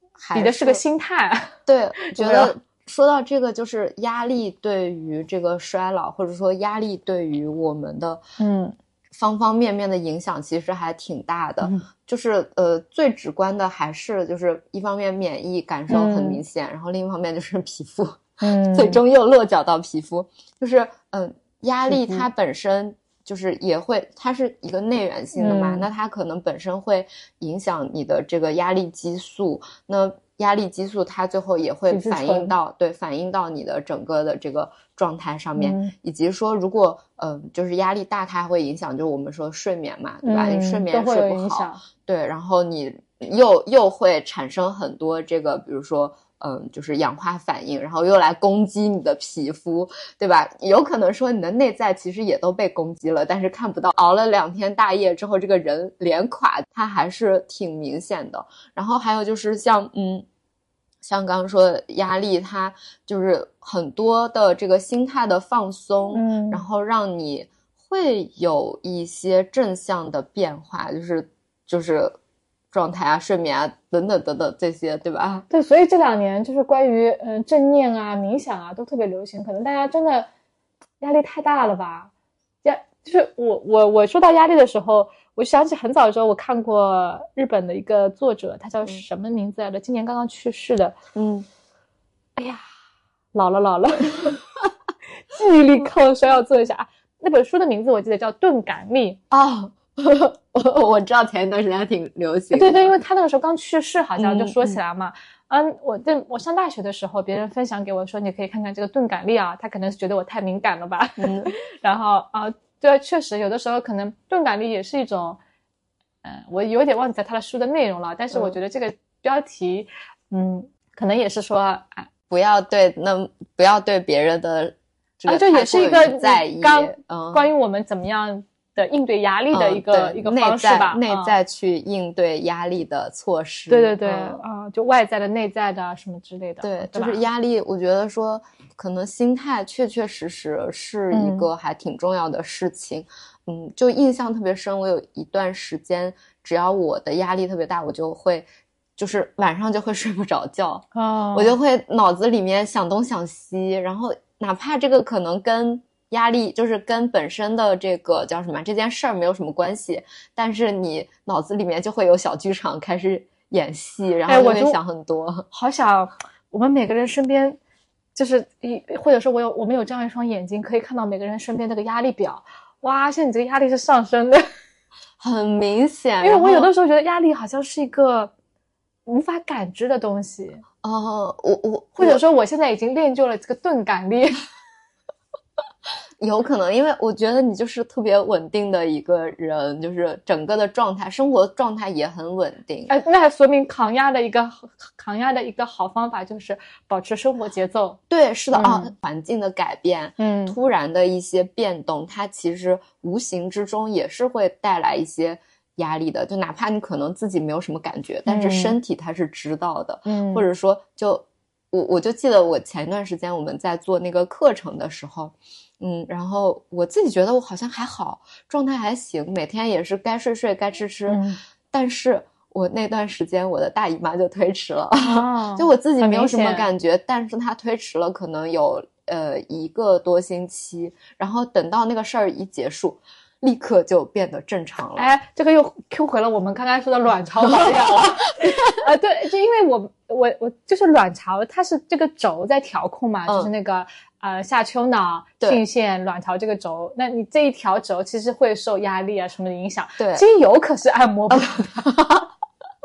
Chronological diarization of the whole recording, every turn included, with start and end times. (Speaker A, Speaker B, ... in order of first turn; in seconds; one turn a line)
Speaker A: 0.2-0.8
Speaker B: 0.3-2.5
Speaker A: 1.6-8.2
Speaker B: 8.4-8.7
Speaker A: 9.1-60.2
Speaker B: 15.9-16.4
Speaker B: 18.4-19.0
Speaker B: 21.9-22.2
Speaker B: 25.4-25.9
Speaker B: 31.9-32.5
Speaker B: 35.6-35.9
Speaker B: 40.2-41.8
Speaker A: 61.0-72.1
Speaker B: 66.1-66.6
Speaker A: 72.7-75.4
Speaker B: 75.5-80.3
Speaker B: 81.0-82.1
Speaker B: 82.6-91.0
Speaker A: 91.1-91.5
Speaker B: 92.3-92.7
Speaker B: 93.3-94.4
Speaker B: 95.3-99.2
Speaker A: 99.3-102.9
Speaker B: 102.5-115.4
Speaker A: 104.2-104.8
Speaker A: 111.2-111.5
Speaker B: 116.2-122.1
Speaker A: 122.3-127.5
Speaker B: 125.3-131.3
Speaker A: 129.5-134.4
Speaker B: 133.7-137.2
Speaker A: 136.6-165.5
Speaker B: 141.1-141.5
Speaker B: 150.9-151.5
Speaker B: 164.3-164.8
Speaker B: 165.5-167.6
Speaker B: 168.1-174.5
Speaker A: 175.2-176.7
Speaker B: 176.2-178.3
Speaker B: 179.1-180.6
Speaker A: 180.8-182.2
Speaker B: 182.0-184.4
Speaker A: 186.2-192.9
Speaker B: 192.9-198.0
Speaker A: 198.1-235.1
Speaker B: 198.5-198.9
Speaker B: 200.2-200.6
Speaker B: 208.3-208.8
Speaker B: 210.1-210.4
Speaker B: 221.1-221.4
Speaker B: 225.0-226.7
Speaker B: 234.9-251.8
Speaker A: 237.5-238.8
Speaker A: 250.0-250.2
Speaker A: 251.3-252.3